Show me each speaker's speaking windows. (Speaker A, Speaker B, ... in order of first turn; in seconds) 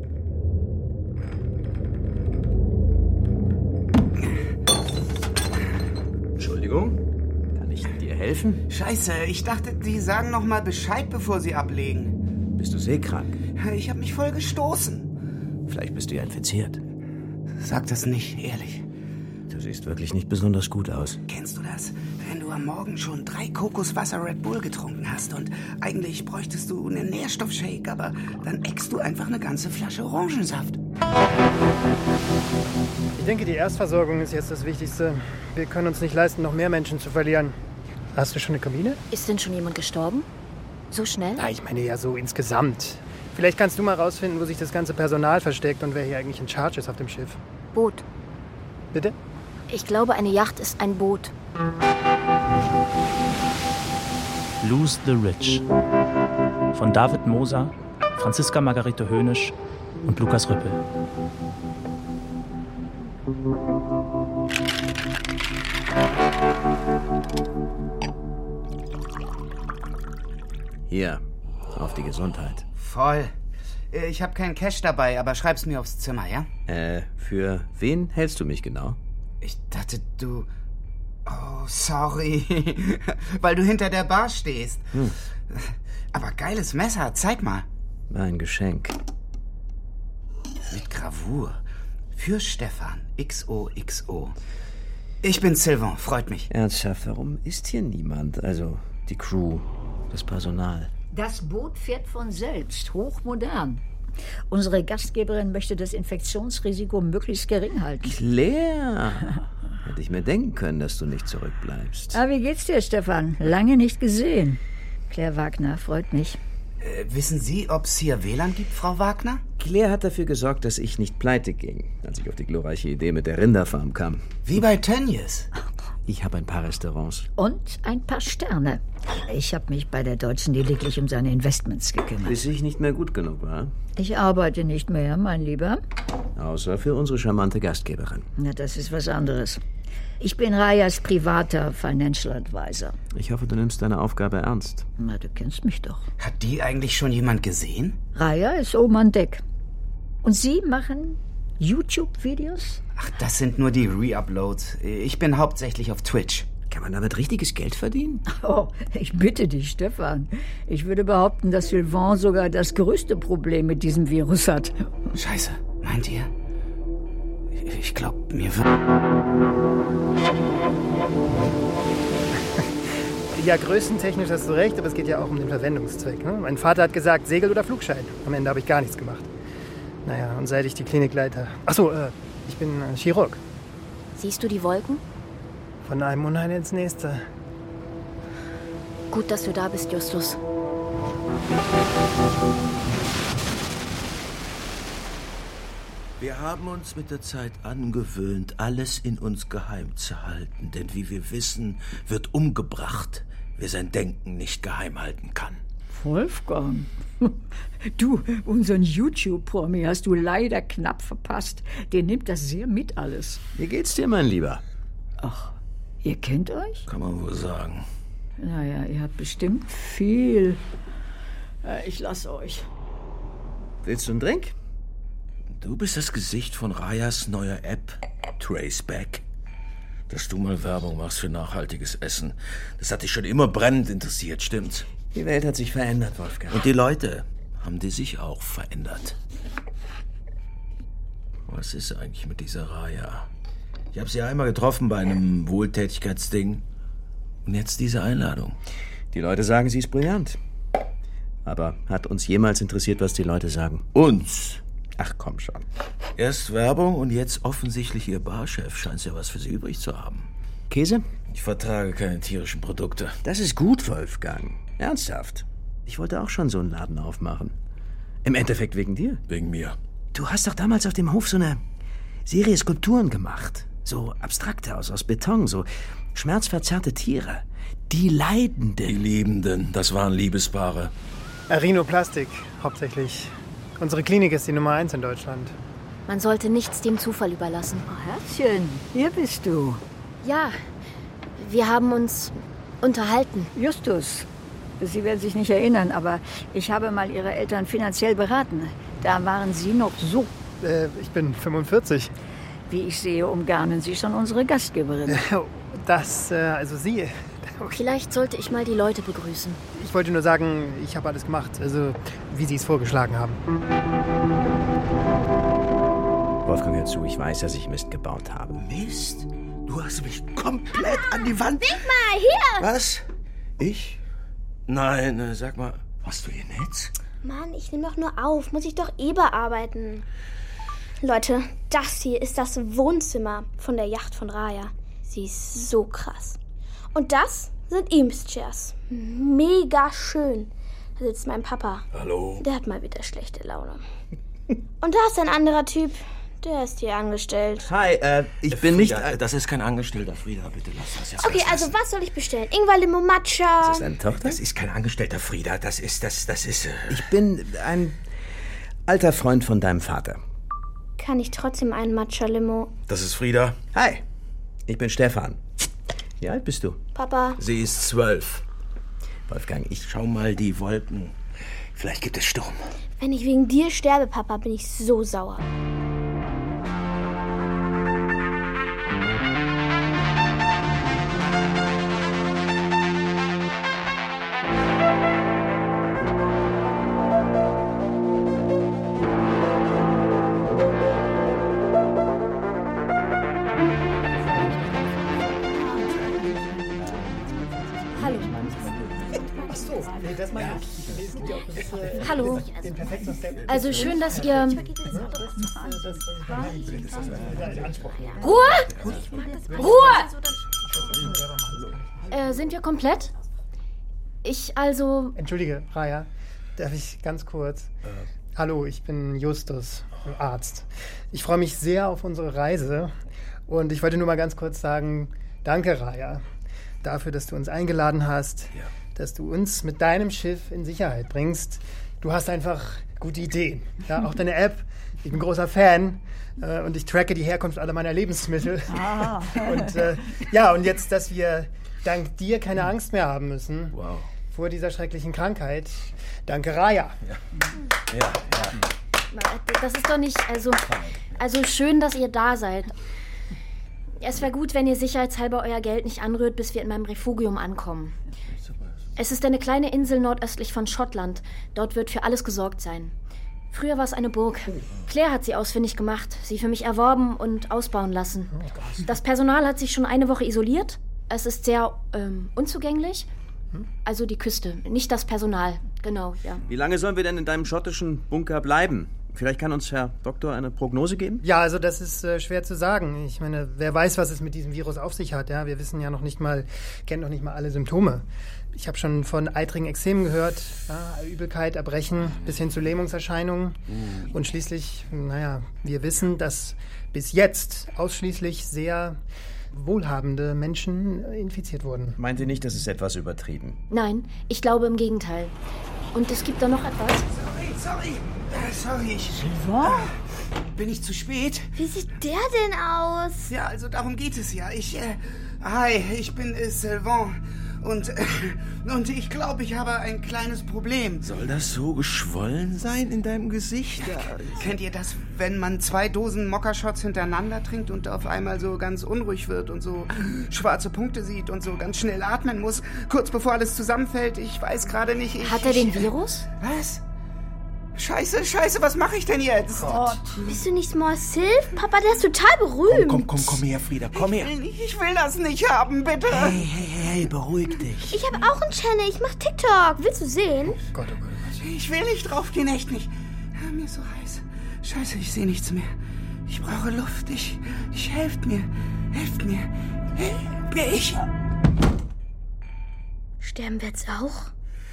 Speaker A: 6.4-7.0, 7.5-8.6, 12.6-13.4, 15.7-16.8, 19.5-21.2, 70.9-72.6, 76.7-79.0, 88.1-88.9, 96.5-100.9, 108.0-109.3, 109.8-112.2, 119.6-124.2, 126.0-127.3, 132.2-133.7, 136.3-138.3, 143.1-144.9, 156.7-158.2, 213.5-214.6, 223.8-224.5, 235.1-236.7, 249.1-250.4, 251.4-253.8, 254.9-255.7, 260.7-261.1, 263.2-267.6, 268.2-269.2, 270.1-271.6, 272.2-279.0, 316.4-318.6, 347.6-349.2, 353.6-354.4, 356.9-358.0, 358.9-360.2, 363.7-364.0, 364.7-365.4, 366.2-366.8, 369.3-369.8, 476.5-481.2, 502.0-503.6
Speaker B: 8.7-12.2, 13.6-15.1, 17.6-18.8, 21.3-30.8, 72.8-73.3, 73.9-76.5, 79.4-80.5, 81.2-84.9, 85.5-87.7, 90.7-91.6, 92.1-94.3, 95.2-96.5, 116.8-119.4, 124.5-125.5, 146.2-148.0, 153.0-156.5, 165.1-166.3, 167.5-168.7, 507.1-511.5, 513.3-521.0, 524.3-536.8, 537.7-539.8, 543.9-546.4, 551.4-555.7, 556.3-561.0
Speaker C: 33.1-37.5, 38.1-39.0, 41.4-47.4, 173.3-179.3, 180.0-183.4, 185.8-187.2, 281.5-285.5, 300.6-302.1, 305.1-307.5, 309.7-313.4, 394.2-394.9, 399.4-408.1, 408.8-409.8, 410.7-412.1, 415.1-417.7, 418.3-422.9, 423.5-426.2, 426.8-443.7, 444.3-447.0, 481.2-493.6, 494.1-499.0, 499.5-502.0, 539.6-540.0, 550.7-551.4
Speaker D: 39.1-40.3, 40.9-41.4, 47.7-48.0, 49.7-51.3, 184.1-185.0, 189.1-190.4, 286.1-287.8, 290.2-290.6, 291.4-293.5, 307.6-309.6, 402.0-402.4, 403.5-404.6, 408.2-408.7, 409.6-410.1, 412.1-413.1, 414.2-415.1, 449.1-452.7, 454.0-457.9, 459.0-462.9, 463.5-473.1, 473.8-476.4, 503.7-505.3, 505.9-507.1, 535.2-536.3
Speaker E: 54.6-55.6, 56.7-59.5, 60.0-60.8
Speaker F: 101.1-103.8, 104.5-108.2, 112.1-116.4, 127.4-132.3, 133.9-135.8, 138.4-139.6, 140.2-143.0, 145.0-146.1, 148.1-149.4, 150.2-152.8, 158.3-164.7, 205.9-213.4, 215.2-216.8, 218.4-220.6, 221.6-222.7, 287.9-289.8, 293.5-294.3, 294.8-300.3, 302.7-305.2, 438.9-439.4, 509.2-509.9, 539.7-540.2
Speaker G: 196.2-205.6, 216.9-217.8, 225.6-229.2, 230.1-234.8, 236.5-239.2, 241.5-243.3, 243.9-246.6, 247.4-248.6, 253.9-254.6, 256.1-260.3, 261.3-263.2, 269.3-269.8, 278.8-280.9, 318.6-321.9, 322.6-323.0, 323.6-324.0, 324.7-326.9, 341.9-342.4, 348.5-351.7, 354.1-357.1, 362.9-363.6, 367.4-368.4, 369.8-371.1, 371.7-372.7, 406.9-407.5, 408.4-408.9, 443.7-444.1, 447.9-448.6, 493.8-494.1, 521.0-524.5, 542.7-544.3, 546.1-547.9
Speaker H: 321.6-322.6, 327.2-330.0, 331.0-336.4, 336.9-341.9, 342.4-343.8, 344.8-347.7, 351.2-353.9, 361.0-362.7, 366.9-367.4, 373.0-375.4, 408.9-410.4, 511.6-513.3, 540.2-543.3, 547.9-550.6, 563.2-564.3